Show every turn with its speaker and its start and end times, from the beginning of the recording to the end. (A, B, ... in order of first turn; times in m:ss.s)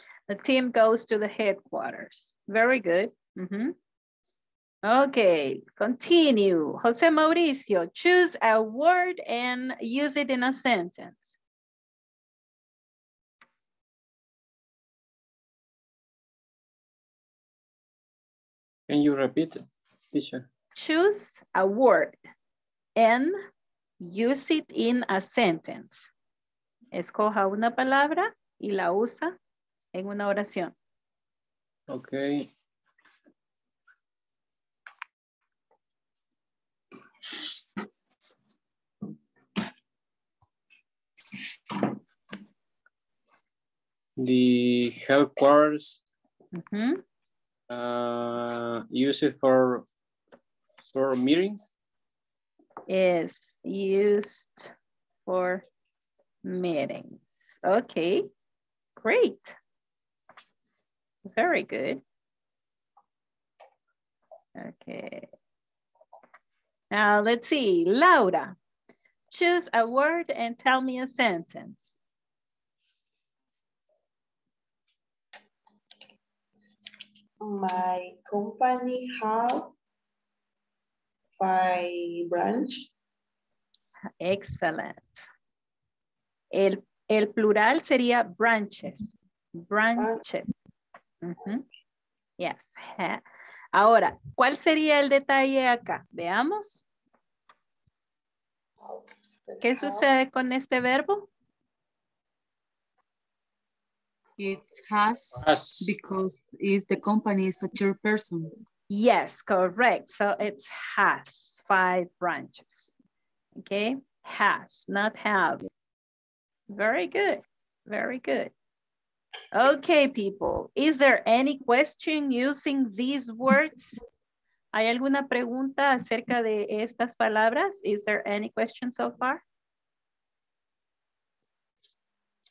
0:00.3-0:03.7 A
0:04.8-0:11.4 A
0:18.9-0:20.5 B
0:20.8-0:22.2 A
0:23.0-0:23.3 A
0:24.0-0:26.1 A
0:26.9-0:29.3 A
0:29.9-0:30.7 A
0:31.9-0:32.5 B
0:44.2-0:46.0 B
0:46.5-0:47.0 A
0:47.7-0:49.8 B
0:50.9-0:51.7 B
0:52.9-0:54.7 A
0:55.3-0:55.6 A
0:56.4-0:58.3 A
0:59.0-0:59.5 A
1:01.3-1:02.0 A
1:04.6-1:05.3 A
1:06.9-1:08.5 A
1:09.3-1:12.0 A
1:17.4-1:19.6 C
1:21.4-1:22.7 C
1:24.2-1:25.3 A
1:26.5-1:30.6 A
1:31.2-1:31.6 A
1:32.4-1:33.2 A
1:33.7-1:36.8 A
1:39.6-1:41.3 A
1:44.4-1:48.5 D
1:45.4-1:46.0 B
1:48.9-1:52.9 A
1:53.6-1:55.6 A
1:56.7-1:58.5 A
1:59.5-2:04.0 A
2:04.7-2:09.4 A